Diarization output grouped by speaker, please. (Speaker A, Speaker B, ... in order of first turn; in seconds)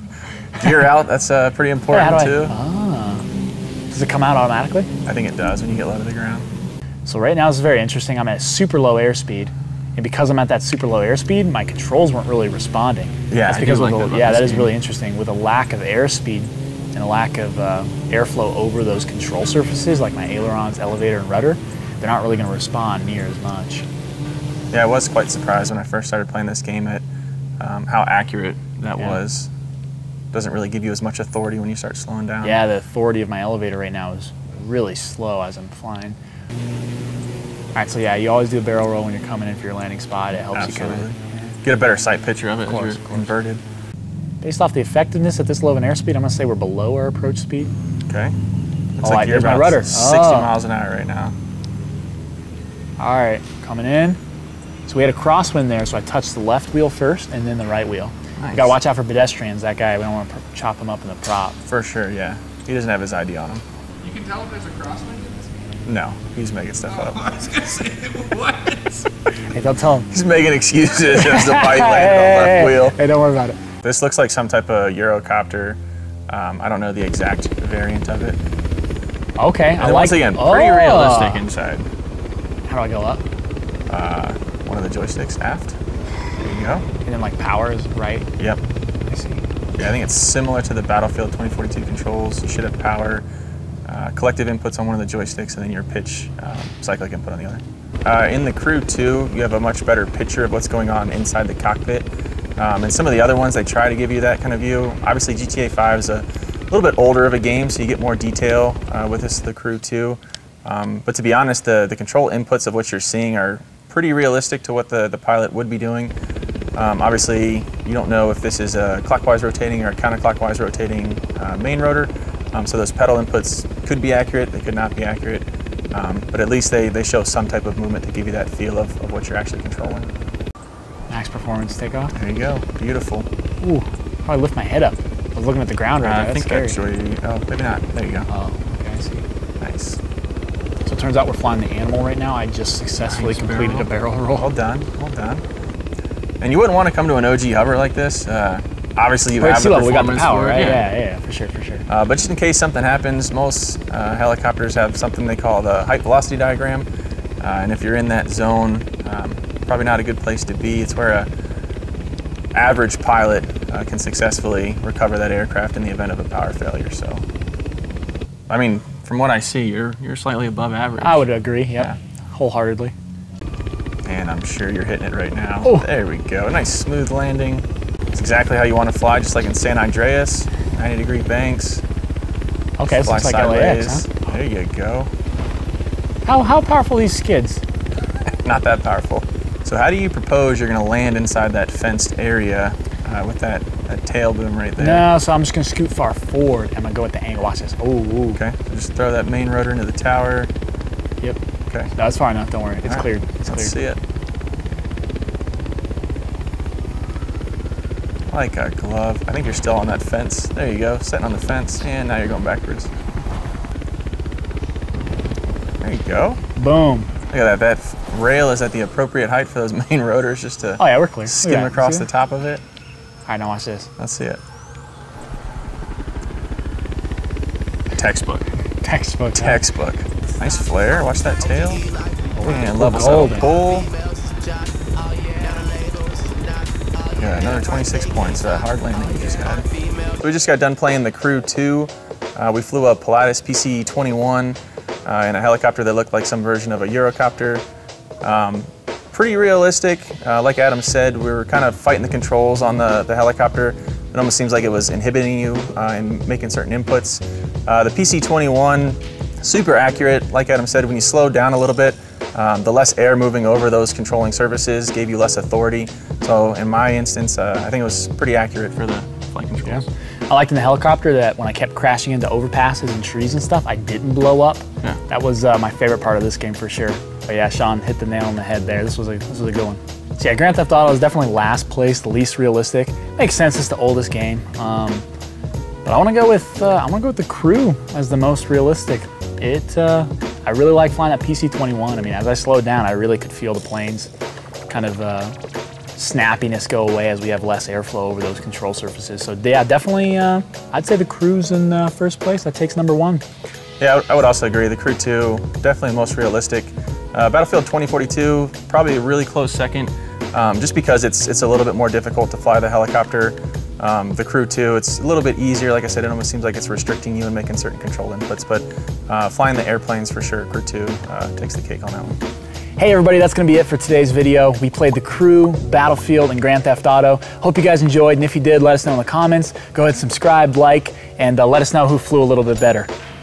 Speaker A: 0.6-2.5, 5.1-6.5, 13.3-14.8, 24.7-27.1, 27.6-29.5, 30.3-32.6, 40.5-43.6, 48.1-48.4, 49.0-51.3, 58.4-58.8, 61.7-63.6, 65.8-68.8, 70.1-73.0, 73.8-78.4, 79.8-81.9, 83.9-85.8, 86.4-86.8, 89.8-93.2, 93.9-116.1, 116.8-130.1, 132.2-133.3, 136.0-138.3, 139.6-140.0, 143.1-145.4, 146.4-150.9, 151.9-156.9, 157.4-161.3, 162.6-167.2, 168.5-171.9, 174.1-181.8, 182.9-185.1, 188.4-195.1, 198.4-200.5, 202.9-204.0, 208.3-212.9, 215.8-216.4, 217.3-222.6, 224.0-224.4, 227.9-228.4, 229.4-231.9, 232.4-233.9, 237.2-247.6, 248.2-269.9, 303.8-322.2
Speaker B: 1.9-3.2, 3.9-4.9, 7.0-23.9, 32.4-36.2, 37.8-41.1, 42.7-43.3, 44.4-47.7, 49.0-50.5, 53.0-54.2, 54.9-61.6, 69.5-70.1, 71.0-73.6, 79.4-81.5, 82.7-83.2, 87.0-88.3, 89.1-89.4, 131.1-132.1, 133.6-136.8, 138.3-139.2, 140.8-144.5, 149.4-151.8, 171.0-172.9, 182.8-184.1, 186.2-187.6, 194.8-198.4, 201.9-203.7, 216.6-217.1, 220.8-222.1, 223.3-223.9, 228.8-229.6, 232.4-233.5, 269.7-285.1, 285.9-294.1, 294.7-295.4, 296.0-303.2, 322.8-332.9
Speaker C: 64.4-65.2, 235.1-236.3